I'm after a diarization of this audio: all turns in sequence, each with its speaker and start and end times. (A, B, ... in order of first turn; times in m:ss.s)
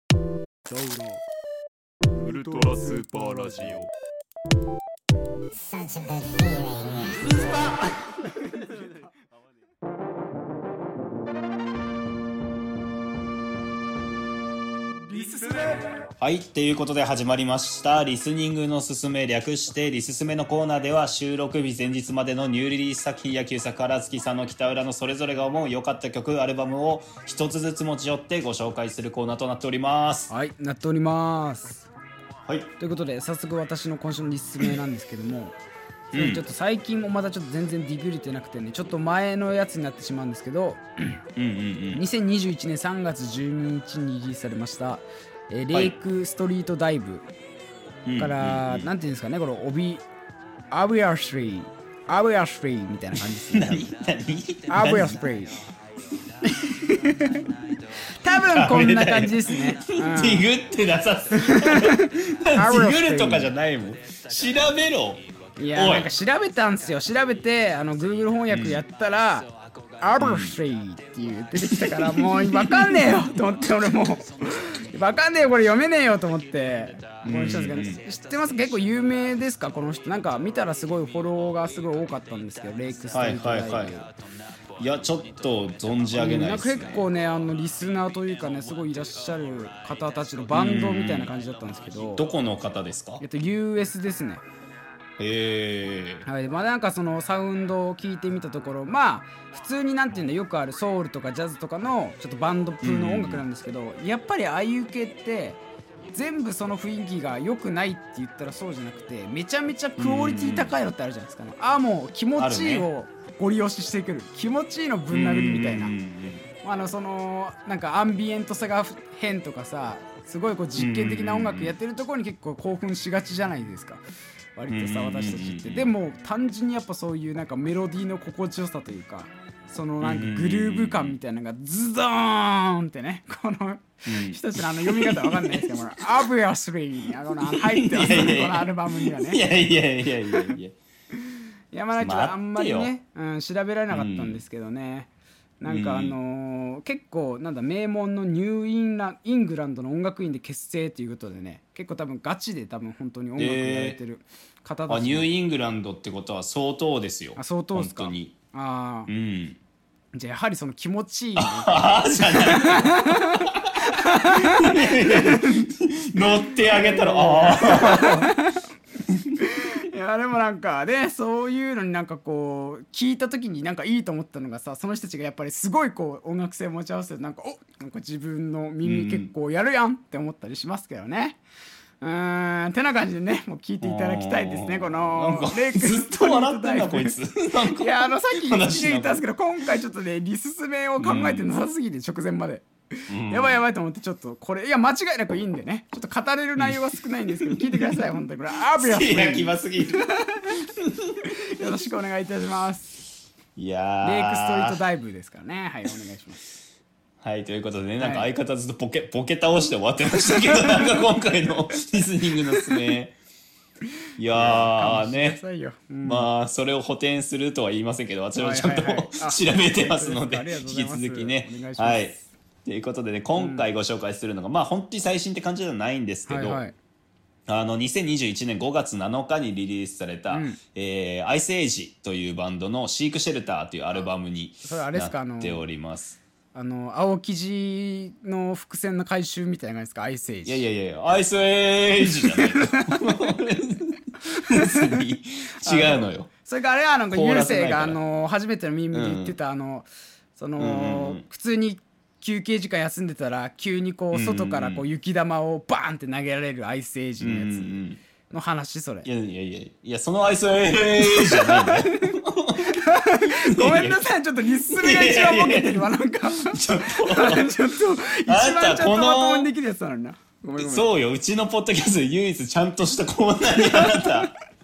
0:00.8-0:01.2 A
0:02.2-0:03.9 A
0:15.1-0:15.9 B
0:16.2-0:30.3 C
0:30.3-0:31.9 B
0:32.5-0:32.7 C
0:32.8-0:35.6 B
0:36.1-0:41.2 B
0:36.1-0:36.4 C
0:41.4-0:42.0 C
0:41.9-0:47.2 B
0:48.1-0:48.9 C
0:48.2-0:50.0 B
0:50.7-0:53.9 B
0:53.5-0:55.2 C
0:54.7-0:55.5 B
0:56.4-0:57.5 B
0:58.1-1:00.5 B
0:58.3-1:05.2 C
1:01.4-1:03.5 B
1:05.6-1:09.5 B
1:05.8-1:06.1 C
1:08.5-1:08.8 C
1:10.0-1:24.1 B
1:10.2-1:10.6 C
1:11.6-1:13.2 C
1:17.2-1:18.0 C
1:23.1-1:24.0 C
1:24.8-1:27.1 C
1:26.1-1:32.3 B
1:30.5-1:31.4 C
1:32.2-1:33.2 C
1:33.2-1:34.4 B
1:35.2-1:36.3 C
1:36.2-1:45.6 B
1:42.8-1:43.4 C
1:46.1-1:55.9 B
1:50.0-1:50.8 C
1:52.4-1:52.9 C
1:55.1-1:56.4 C
1:56.6-2:04.0 B
2:00.8-2:01.8 C
2:04.6-2:19.4 B
2:04.7-2:05.9 C
2:10.0-2:11.2 C
2:14.1-2:15.8 C
2:17.5-2:20.8 C
2:21.7-2:35.3 B
2:22.0-2:22.9 C
2:23.9-2:24.4 C
2:25.7-2:26.2 C
2:33.4-2:34.0 C
2:34.9-2:38.4 C
2:37.4-2:39.1 B
2:39.1-2:39.6 C
2:40.1-2:45.7 B
2:41.4-2:48.3 C
2:46.6-2:48.6 B
2:49.4-3:01.4 B
2:58.8-2:59.3 C
3:02.0-3:07.2 B
3:03.8-3:09.2 C
3:07.7-3:20.6 B
3:11.0-3:11.5 C
3:13.1-3:13.6 C
3:16.6-3:18.0 C
3:18.7-3:20.1 C
3:20.8-3:21.2 C
3:21.2-3:23.0 B
3:23.6-3:24.8 C
3:24.0-3:26.4 B
3:27.2-3:33.2 C
3:28.0-3:28.3 B
3:34.2-3:35.4 C
3:34.3-3:36.3 B
3:36.0-3:46.6 C
3:38.4-3:42.2 B
3:43.4-3:43.7 B
3:46.3-3:46.7 B
3:47.5-3:56.2 C
3:50.3-3:50.6 B
3:54.6-3:55.6 B
3:56.5-4:00.6 B
4:00.4-4:06.3 C
4:02.1-4:03.2 B
4:04.4-4:05.0 B
4:05.6-4:17.8 B
4:07.1-4:08.0 C
4:08.9-4:09.4 C
4:10.6-4:11.2 C
4:14.1-4:14.8 C
4:17.2-4:18.0 C
4:18.3-4:19.1 B
4:19.0-4:24.0 C
4:21.1-4:30.9 B
4:24.7-4:27.6 C
4:28.3-4:29.5 C
4:30.6-4:34.3 C
4:33.6-4:34.2 B